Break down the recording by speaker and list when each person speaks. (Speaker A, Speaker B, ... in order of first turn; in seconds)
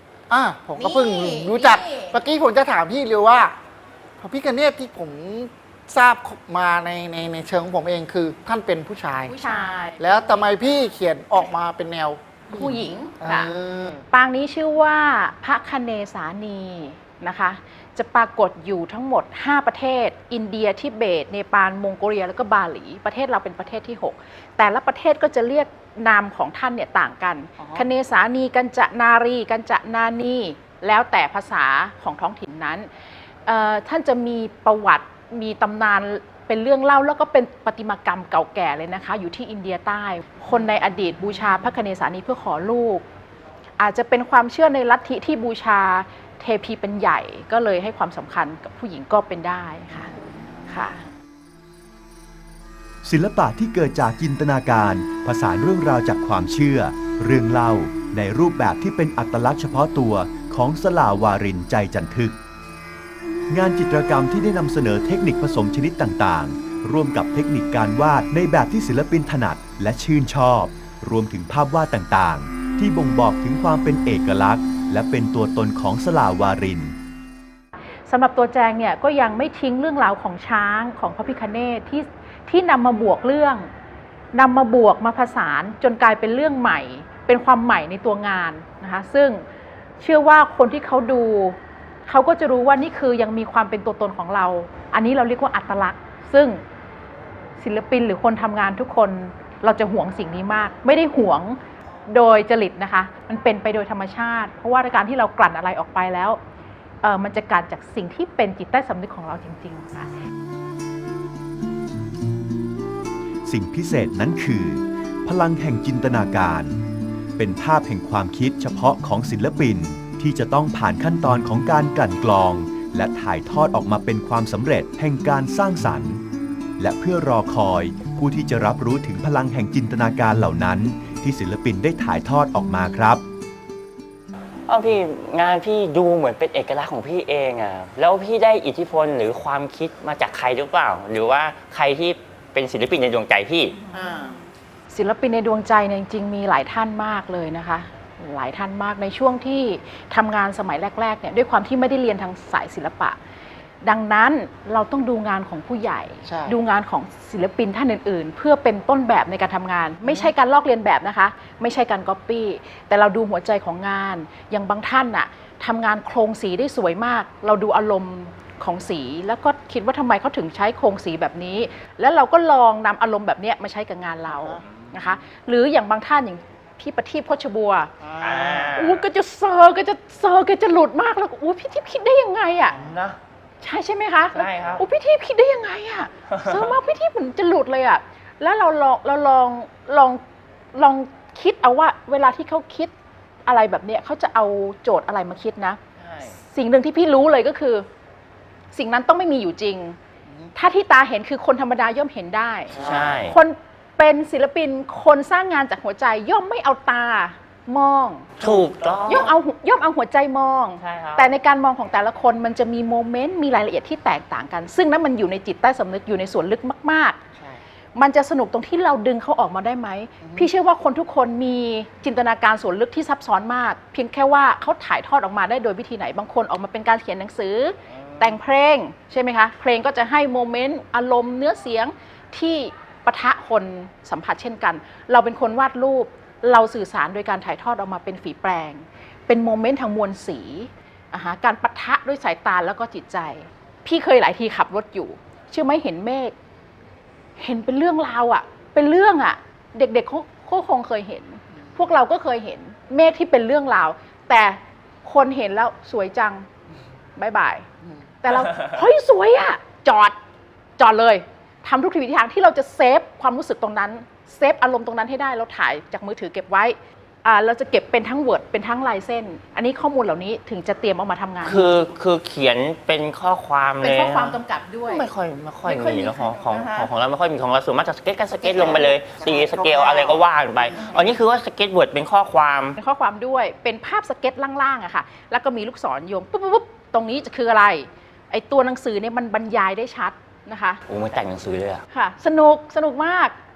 Speaker A: 0.3-3.6, 4.2-9.4, 10.0-14.1, 27.6-27.9, 143.9-144.4, 156.2-156.6, 160.1-160.3, 174.3-174.6, 178.0-178.8, 202.7-203.2, 220.2-220.5, 251.6-251.9, 278.4-280.2
Speaker B: 0.8-2.1, 9.3-10.5, 12.5-13.5, 14.1-32.9, 33.5-43.0, 43.8-50.1, 50.7-51.0, 78.1-83.7, 84.3-89.4, 90.0-96.6, 97.6-106.4, 107.0-110.1, 143.9-144.4, 144.9-153.2, 153.8-177.9, 178.7-182.8, 183.6-190.2, 190.7-192.9, 193.5-195.8, 196.4-197.9, 198.7-200.0, 200.6-217.2, 218.0-246.3, 247.4-256.5, 257.2-257.7, 258.2-260.2, 260.8-271.7, 273.8-275.1, 275.7-276.9, 278.6-278.9, 282.8-290.8, 291.9-293.4
Speaker C: 53.0-62.4, 63.5-77.0, 113.5-116.8, 117.4-126.2, 126.8-133.2
Speaker D: 134.7-143.8, 178.2-179.0, 182.7-183.2, 184.3-184.8, 196.0-196.3, 202.8-203.4, 208.4-209.3, 210.8-211.3, 271.4-282.8, 290.9-291.8